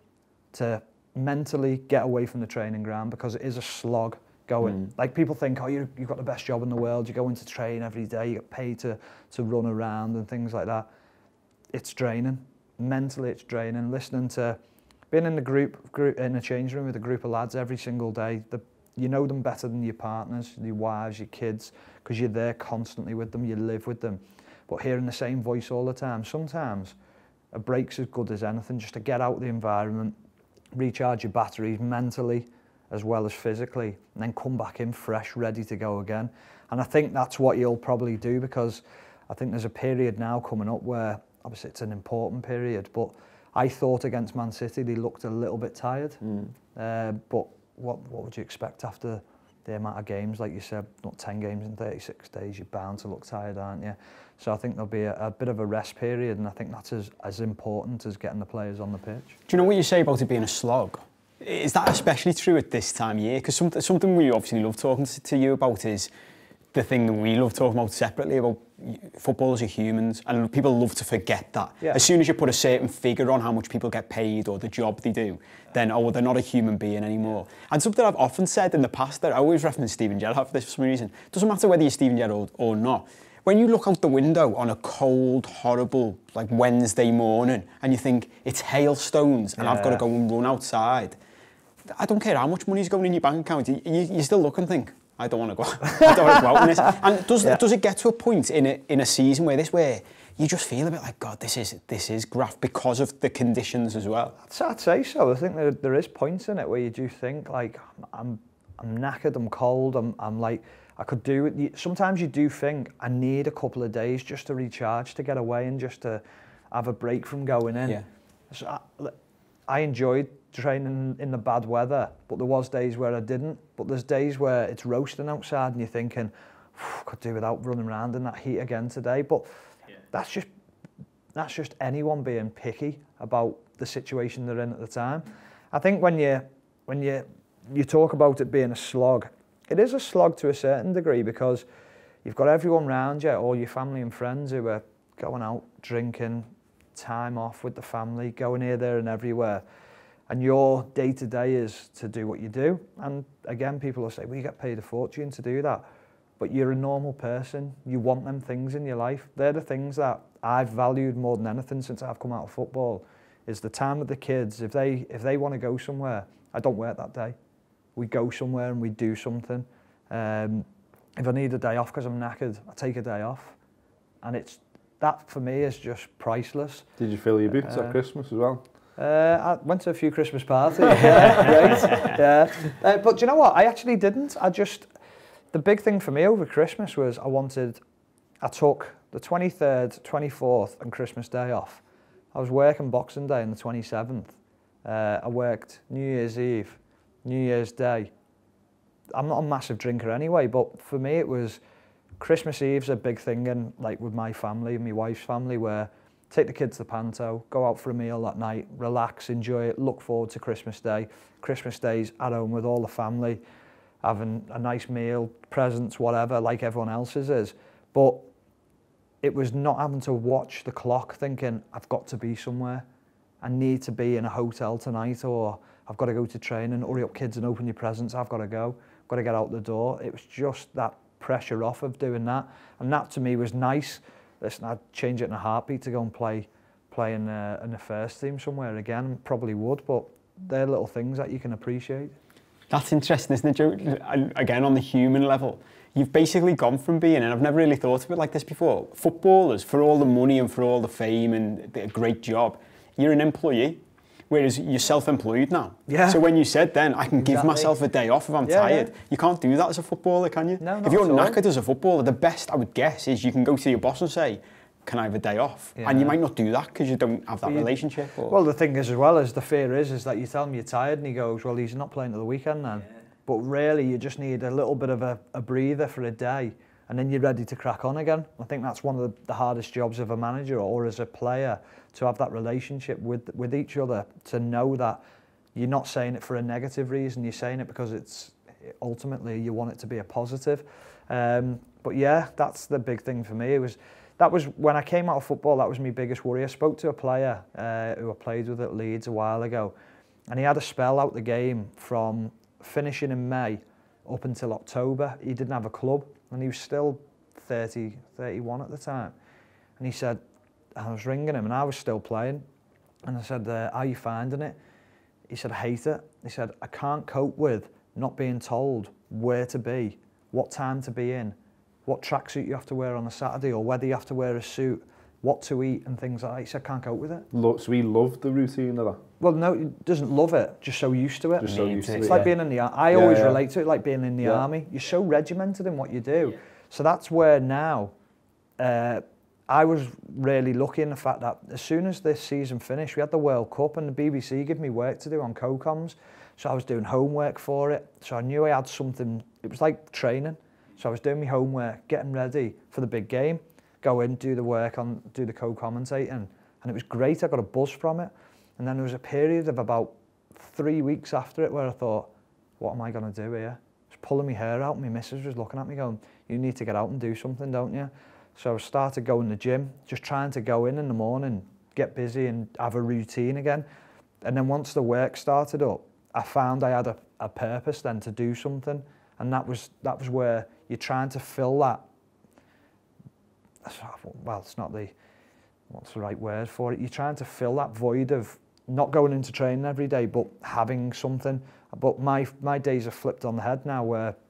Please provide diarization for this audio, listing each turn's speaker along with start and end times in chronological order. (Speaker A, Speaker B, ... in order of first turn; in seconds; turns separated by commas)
Speaker A: 0.5-10.9, Speaker A: 11.7-14.6, Speaker A: 15.1-26.9, Speaker A: 27.5-30.1, Speaker A: 30.8-46.2, Speaker A: 46.7-59.4, Speaker B: 59.5-66.1, Speaker B: 66.7-91.2, Speaker A: 89.6-90.0, Speaker B: 91.9-104.4, Speaker A: 104.4-119.2, Speaker A: 119.7-129.5, Speaker A: 130.1-130.5, Speaker A: 131.3-141.7, Speaker A: 142.2-149.6, Speaker A: 150.3-155.8, Speaker A: 156.4-167.3, Speaker A: 168.0-173.6, Speaker A: 174.2-176.9, Speaker C: 177.0-178.6, Speaker A: 177.6-178.0, Speaker A: 179.0-184.9, Speaker A: 185.5-187.8, Speaker A: 188.4-191.8, Speaker A: 192.3-198.1, Speaker A: 199.1-201.6, Speaker A: 202.2-213.4, Speaker A: 214.0-218.3, Speaker A: 219.2-222.8, Speaker A: 223.4-242.2, Speaker B: 242.7-268.4, Speaker A: 255.9-256.2, Speaker A: 257.2-257.7, Speaker A: 258.4-258.9, Speaker A: 260.6-261.4, Speaker A: 265.8-266.2, Speaker A: 267.5-267.7, Speaker A: 268.3-285.0, Speaker A: 285.6-299.7, Speaker A: 300.3-309.1, Speaker A: 309.8-310.2, Speaker A: 310.8-312.4, Speaker A: 313.1-314.6, Speaker A: 315.3-321.4, Speaker A: 321.9-327.3, Speaker C: 327.3-329.0, Speaker A: 329.2-337.9, Speaker C: 331.4-332.3, Speaker B: 331.4-332.3, Speaker C: 332.9-333.4, Speaker A: 338.6-362.1, Speaker A: 362.6-373.6, Speaker A: 374.2-381.9, Speaker A: 383.6-384.9, Speaker A: 385.7-394.1